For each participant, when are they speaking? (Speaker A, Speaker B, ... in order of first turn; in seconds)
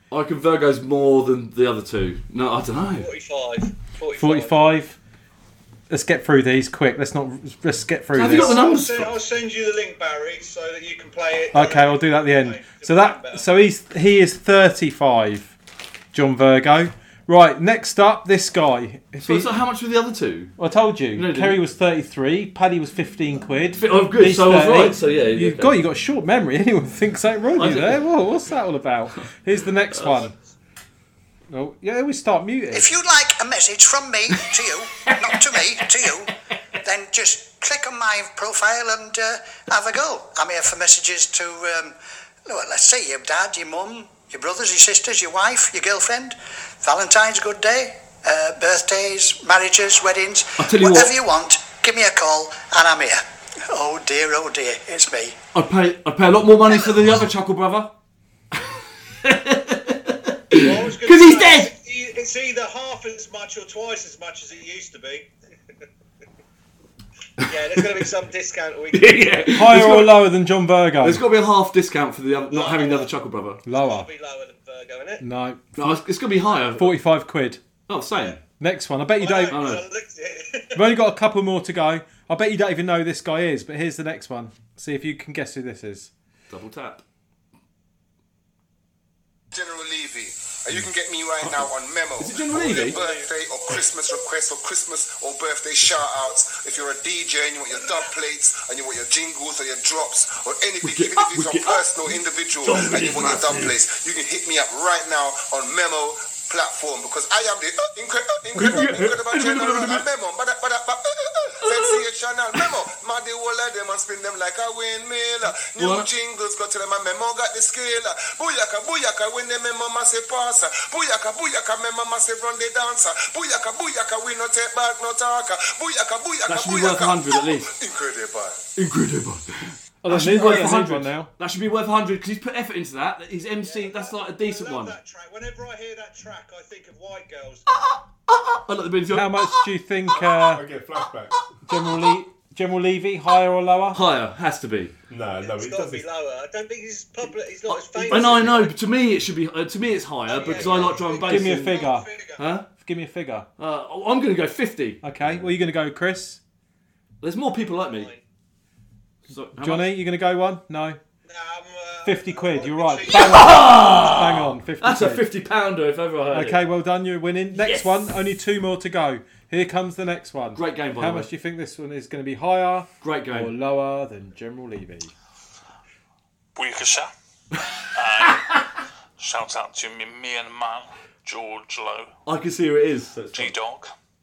Speaker A: 0.1-3.1, 8.1-9.2, 19.2-20.5, 21.1-21.6, 23.8-25.8, 27.6-28.0, 29.9-30.3, 50.6-51.1, 55.5-57.9, 58.6-61.7, 67.4-67.8, 68.9-70.3, 71.0-73.6, 75.8-77.0, 77.9-78.4, 79.5-79.9, 86.5-87.0, 91.4-93.0, 100.8-103.8, 108.5-110.1, 111.6-112.8, 115.8-116.1, 126.5-127.7, 128.8-135.0, 137.9-139.6, 143.9-144.9, 147.7-151.8, 152.4-152.7, 153.6-155.0, 157.2-158.1, 159.3-159.9, 163.1-166.6, 167.6-168.0, 170.6-171.3, 173.0-173.6, 182.3-183.5
Speaker B: 3.0-4.6, 67.4-69.3, 72.5-73.1, 73.7-75.2, 145.4-148.7, 150.3-151.0, 157.8-158.2
Speaker C: 4.2-5.0, 5.9-8.6, 11.5-15.5, 16.1-19.5, 20.6-30.3, 31.5-32.9, 69.5-71.2, 73.7-74.1, 75.2-75.9, 76.7-77.6, 78.6-79.7, 80.8-86.1, 130.0-131.3, 139.1-140.6, 141.7-144.0, 151.2-152.1, 152.8-153.5, 155.0-156.4, 159.6-161.0, 162.1-165.2, 166.3-175.1
Speaker D: 8.2-13.5, 60.6-65.3, 79.2-80.8, 92.9-93.8, 97.8-98.1, 133.6-137.7, 150.3-152.4, 161.3-163.7
Speaker E: 32.7-36.3, 36.8-55.4
Speaker F: 89.5-128.6
Speaker G: 140.4-141.4, 145.1-146.1
Speaker H: 176.6-177.1, 177.9-178.6, 179.2-182.1, 183.3-183.9